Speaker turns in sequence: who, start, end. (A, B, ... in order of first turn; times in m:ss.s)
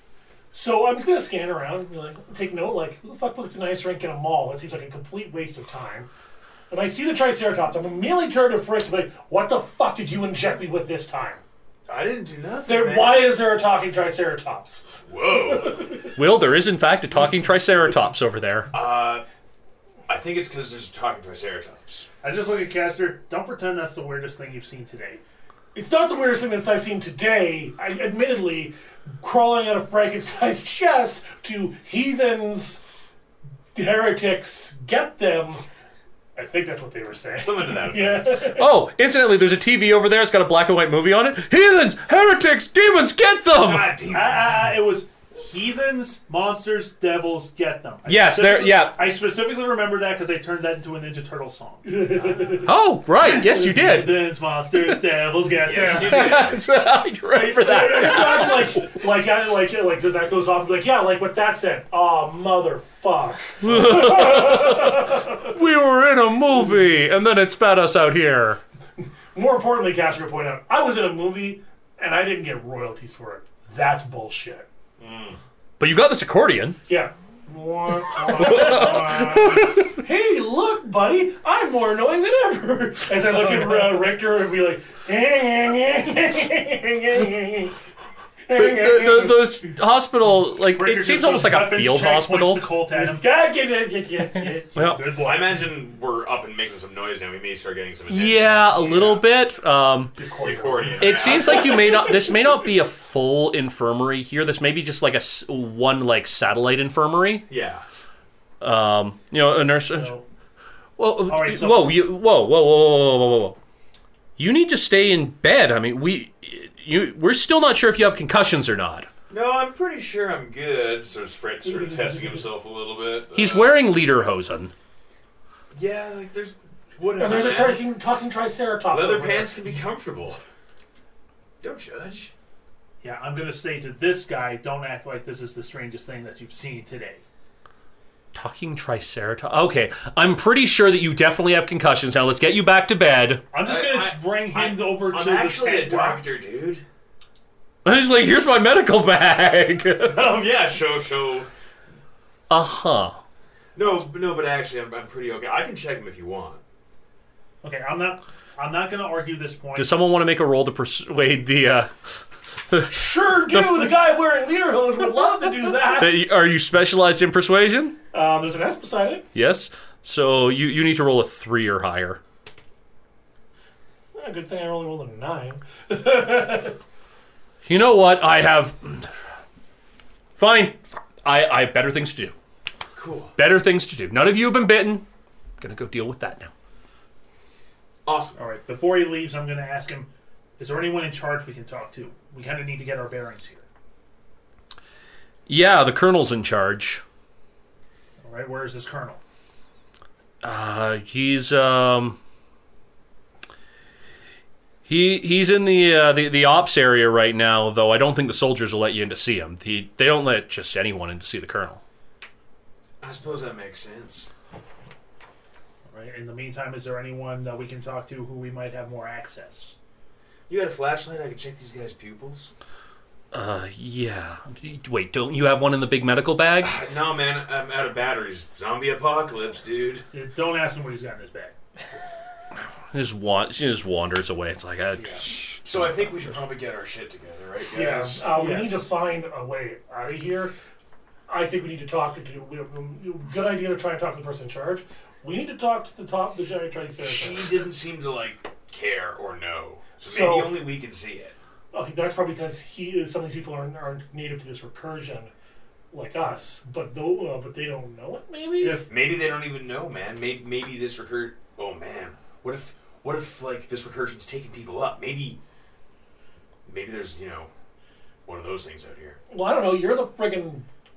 0:00.5-0:06.1 A
0:06.7-0:11.4 A
0:11.9-0:13.4 B
0:12.6-0:14.9 A
0:15.1-0:16.1 B
0:15.5-0:15.9 A
0:16.2-0:18.7 C
0:18.7-0:19.2 B
0:20.1-0:22.1 B
0:22.2-0:25.2 D
0:25.7-0:32.8 A
0:33.8-0:35.6 A
0:36.4-0:38.7 A
0:37.4-0:38.6 B
0:38.6-0:43.9 C
0:43.6-0:44.7 B
0:44.1-0:52.6 D
0:48.1-0:49.0 C
0:51.8-0:52.7 A
0:52.6-0:54.2 C
0:53.2-0:56.5 D
0:55.6-0:56.6 B
0:55.9-0:59.0 C
0:57.4-1:05.5 A
0:57.9-0:58.1 D
1:03.6-1:08.6 C
1:09.3-1:14.7 A
1:15.0-1:15.4 B
1:15.8-1:16.8 C
1:16.9-1:27.7 A
1:18.2-1:20.0 C
1:28.5-1:29.6 A
1:28.5-1:32.6 C
1:30.7-1:33.3 D
1:32.9-1:34.8 A
1:34.7-1:35.7 D
1:34.8-1:35.0 C
1:35.2-1:39.2 B
1:38.1-1:40.2 C
1:40.2-1:42.2 A
1:40.4-1:42.0 B
1:41.0-1:47.5 C
1:47.5-1:47.8 B
1:48.6-1:50.2 C
1:49.8-1:50.2 D
1:51.0-1:53.6 C
1:51.3-1:52.0 D
1:54.4-1:59.1 C
1:59.3-2:03.7 B
2:01.8-2:02.1 A
2:03.3-2:04.7 C
2:05.7-2:07.8 B
2:07.2-2:09.5 A
2:08.9-2:10.4 B
2:11.6-2:12.3 B
2:13.0-2:17.2 D
2:18.3-2:23.4 C
2:23.5-2:26.2 D
2:23.6-2:26.8 B
2:27.8-2:30.3 C
2:30.1-2:31.5 B
2:32.5-2:33.2 C
2:33.8-2:36.6 B
2:37.6-2:39.9 D
2:39.8-2:44.0 C
2:42.9-2:46.2 A
2:45.8-2:48.0 C
2:48.1-2:49.2 A
2:49.4-2:52.2 C
2:54.2-2:56.8 A
2:57.6-2:59.1 C
3:00.4-3:02.3 C
3:03.0-3:03.3 B
3:03.4-3:05.0 C
3:05.6-3:06.5 C
3:08.0-3:08.4 B
3:08.4-3:13.7 D
3:15.5-3:17.0 C
3:18.2-3:19.2 D
3:20.4-3:22.2 C
3:24.9-3:31.8 C
3:33.0-3:34.3 B
3:35.9-3:39.8 D
3:40.5-3:42.5 B
3:43.3-3:46.8 C
3:46.6-3:50.1 B
3:50.1-3:51.6 D
3:52.9-3:55.9 C
3:55.0-3:55.2 D
3:55.6-3:58.2 B
3:57.7-4:00.5 A
3:57.8-3:58.9 D
4:01.3-4:07.7 A
4:07.0-4:11.3 B
4:10.0-4:10.6 A
4:11.7-4:15.3 A
4:15.9-4:18.8 A
4:18.8-4:25.4 B
4:26.7-4:27.5 B
4:28.3-4:29.2 B
4:29.3-4:30.7 A